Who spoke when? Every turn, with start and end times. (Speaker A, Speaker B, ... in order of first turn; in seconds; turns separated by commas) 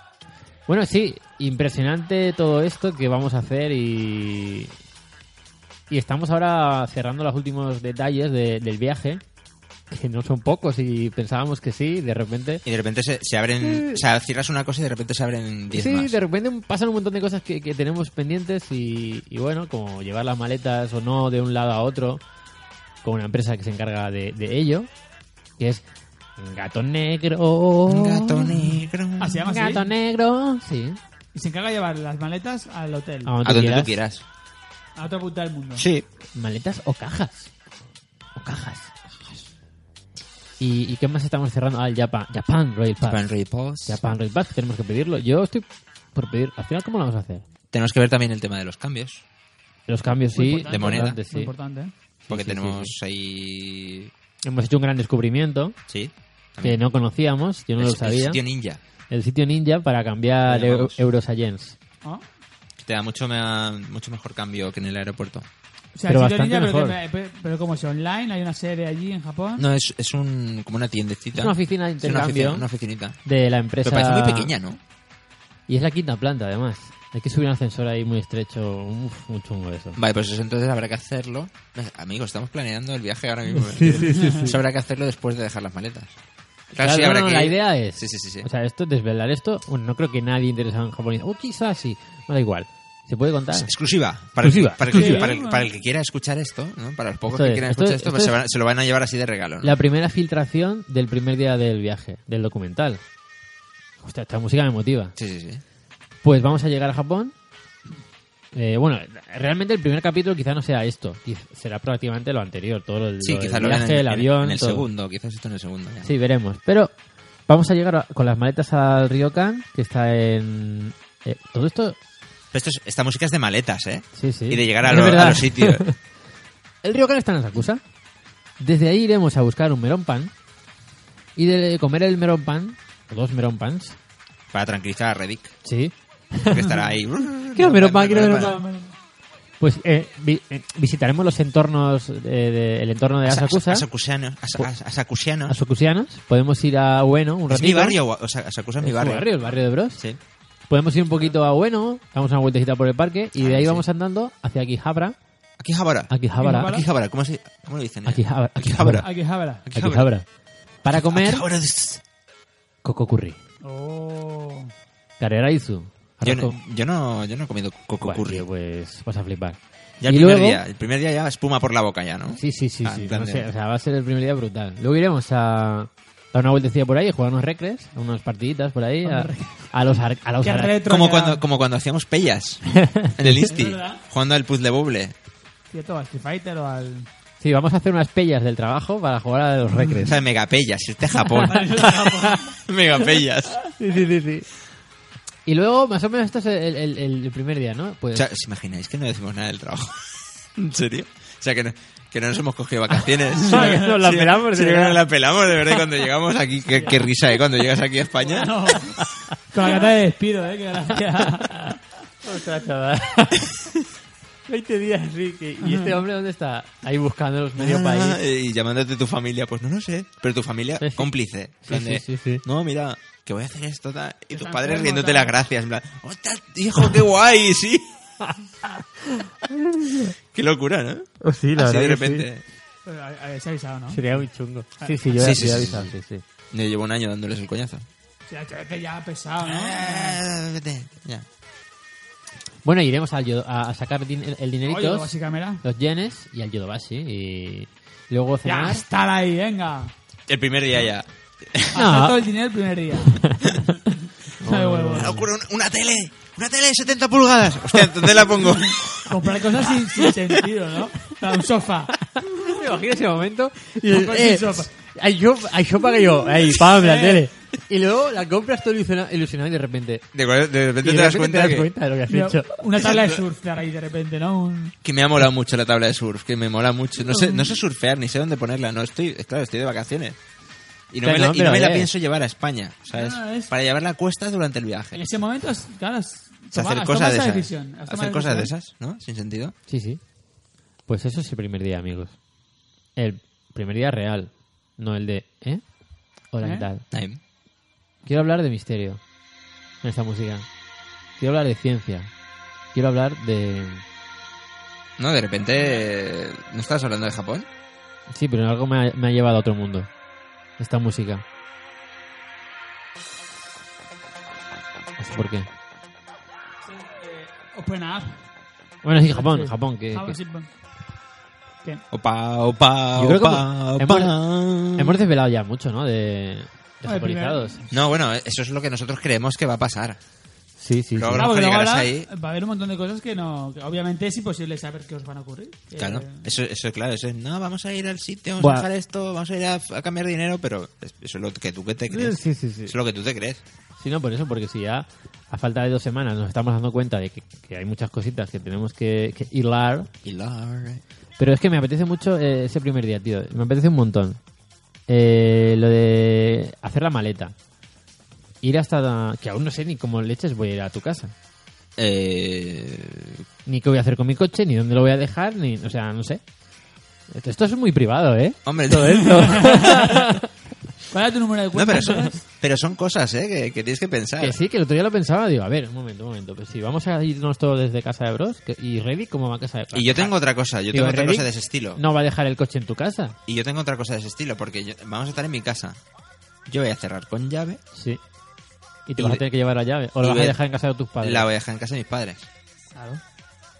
Speaker A: 0.7-4.7, Speaker A: 5.9-9.2, Speaker A: 9.9-12.6, Speaker B: 12.6-16.1, Speaker A: 13.6-14.0, Speaker A: 15.7-22.2, Speaker A: 23.0-24.9, Speaker A: 25.6-25.8, Speaker A: 26.4-28.8, Speaker B: 27.9-29.5, Speaker C: 29.2-29.9, Speaker A: 29.4-31.0, Speaker C: 31.3-33.3, Speaker A: 33.2-34.0, Speaker B: 33.4-34.2, Speaker C: 35.0-35.9, Speaker B: 35.8-36.0, Speaker A: 36.3-37.5, Speaker A: 38.3-38.9, Speaker A: 40.6-43.2, Speaker B: 43.0-44.0, Speaker A: 43.9-47.4, Speaker B: 47.7-49.2, Speaker A: 49.9-51.5, Speaker C: 50.3-51.9, Speaker B: 50.7-51.2, Speaker A: 52.3-52.9, Speaker B: 52.3-54.1, Speaker A: 54.4-55.8, Speaker B: 55.9-56.8, Speaker A: 56.6-58.4, Speaker B: 57.8-58.8, Speaker A: 59.1-61.8, Speaker B: 60.4-61.0, Speaker B: 62.8-65.5, Speaker C: 65.9-69.6, Speaker A: 66.1-67.0, Speaker B: 69.6-73.2, Speaker A: 71.3-72.7, Speaker A: 73.2-74.5, Speaker B: 73.8-74.8, Speaker A: 75.7-80.0, Speaker B: 80.0-86.1, Speaker A: 83.5-84.6, Speaker C: 84.1-84.4, Speaker B: 86.7-88.5, Speaker A: 86.8-93.7, Speaker B: 93.5-99.8, Speaker A: 94.4-95.3, Speaker C: 94.9-95.7, Speaker A: 97.3-98.4, Speaker A: 99.6-103.0, Speaker A: 104.0-105.1, Speaker B: 105.2-105.6, Speaker A: 106.2-107.3, Speaker A: 108.5-114.8, Speaker B: 113.2-116.1, Speaker A: 116.0-116.9, Speaker A: 117.5-122.0, Speaker B: 122.5-125.9, Speaker A: 124.2-126.0, Speaker A: 126.8-127.8, Speaker A: 128.6-130.3, Speaker A: 131.3-134.0, Speaker B: 134.5-135.6, Speaker A: 135.6-136.7, Speaker B: 136.5-138.6, Speaker A: 137.5-138.6, Speaker C: 138.3-138.9, Speaker A: 139.6-143.9, Speaker B: 143.2-145.6, Speaker A: 145.5-148.0, Speaker B: 147.5-149.3, Speaker A: 148.8-150.0, Speaker A: 150.7-155.2, Speaker B: 153.4-153.8, Speaker B: 155.6-160.1, Speaker A: 156.1-156.8, Speaker C: 156.4-156.8, Speaker A: 158.1-159.1, Speaker C: 159.0-159.6, Speaker A: 159.7-160.2, Speaker A: 160.8-161.4, Speaker B: 160.9-162.0, Speaker A: 162.8-163.4, Speaker C: 163.6-164.7, Speaker A: 165.2-166.6, Speaker B: 166.2-168.4, Speaker A: 168.0-170.6, Speaker B: 170.0-173.5, Speaker A: 172.3-180.8, Speaker C: 179.0-179.7, Speaker C: 180.4-181.4, Speaker B: 180.8-185.1, Speaker A: 182.8-183.5, Speaker C: 183.5-184.0, Speaker C: 185.7-187.1, Speaker A: 187.4-190.2, Speaker B: 190.0-192.0, Speaker A: 191.2-192.3, Speaker C: 191.4-192.6, Speaker B: 192.6-193.6, Speaker A: 193.7-194.4, Speaker A: 195.4-198.3, Speaker B: 198.1-208.5, Speaker C: 203.4-203.9, Speaker A: 203.4-205.0, Speaker C: 208.2-211.8, Speaker A: 211.4-213.5, Speaker A: 214.5-218.2, Speaker C: 215.6-216.0, Speaker B: 217.6-227.9, Speaker A: 220.8-221.1, Speaker A: 221.7-222.4, Speaker C: 224.3-225.3, Speaker A: 228.2-230.1, Speaker B: 230.3-232.4, Speaker A: 231.2-232.3, Speaker C: 232.8-234.0, Speaker A: 233.9-236.2, Speaker C: 234.8-235.2, Speaker B: 235.1-235.9, Speaker B: 236.5-237.8, Speaker C: 238.3-240.2, Speaker B: 239.4-241.2, Speaker A: 242.6-245.1, Speaker C: 244.6-245.6, Speaker A: 245.6-248.8, Speaker C: 248.4-249.9, Speaker B: 250.3-251.8, Speaker C: 251.7-255.2, Speaker A: 251.7-252.2, Speaker A: 253.0-253.7, Speaker A: 254.4-255.3, Speaker B: 254.9-260.1, Speaker C: 258.4-261.9, Speaker A: 262.1-270.1, Speaker C: 263.8-264.7, Speaker C: 266.6-267.3, Speaker B: 270.1-271.7, Speaker A: 270.8-272.7, Speaker C: 272.1-274.7, Speaker B: 272.8-273.2, Speaker B: 274.8-280.2, Speaker C: 277.1-277.6, Speaker B: 280.9-285.0, Speaker A: 281.0-281.9, Speaker C: 282.9-283.5, Speaker C: 284.9-288.5, Speaker B: 286.5-289.5, Speaker A: 289.7-290.0, Speaker A: 290.9-292.1, Speaker A: 292.9-295.6, Speaker A: 296.3-296.8, Speaker C: 296.4-296.7, Speaker B: 296.9-297.2, Speaker A: 298.0-299.0, Speaker A: 299.8-300.4, Speaker A: 301.2-302.1, Speaker A: 302.7-303.8, Speaker B: 305.0-307.5, Speaker A: 308.1-309.9, Speaker A: 310.6-311.2, Speaker A: 315.0-315.5, Speaker C: 316.6-318.2, Speaker A: 318.8-320.2, Speaker C: 319.0-320.5, Speaker B: 321.9-325.0, Speaker A: 322.9-324.1, Speaker A: 324.7-327.6, Speaker C: 326.8-327.8, Speaker B: 327.7-330.0, Speaker A: 330.6-331.3, Speaker B: 330.9-332.1, Speaker C: 331.1-336.2, Speaker B: 335.8-343.4, Speaker A: 338.4-338.7, Speaker A: 341.9-342.7, Speaker A: 343.8-349.9, Speaker B: 350.0-350.8, Speaker A: 351.2-354.2, Speaker A: 354.9-357.3, Speaker A: 358.4-361.1, Speaker B: 361.8-363.2, Speaker A: 363.4-366.2, Speaker A: 367.1-370.3, Speaker B: 368.4-369.8, Speaker C: 369.0-370.0, Speaker C: 370.9-372.2, Speaker B: 371.5-374.4, Speaker A: 374.2-380.1, Speaker B: 379.7-381.8, Speaker A: 380.7-383.1, Speaker B: 383.3-385.8, Speaker B: 386.5-387.6, Speaker A: 387.7-388.0, Speaker A: 388.9-391.3, Speaker B: 389.0-389.2, Speaker B: 390.0-390.4, Speaker B: 391.0-392.3, Speaker C: 392.7-393.0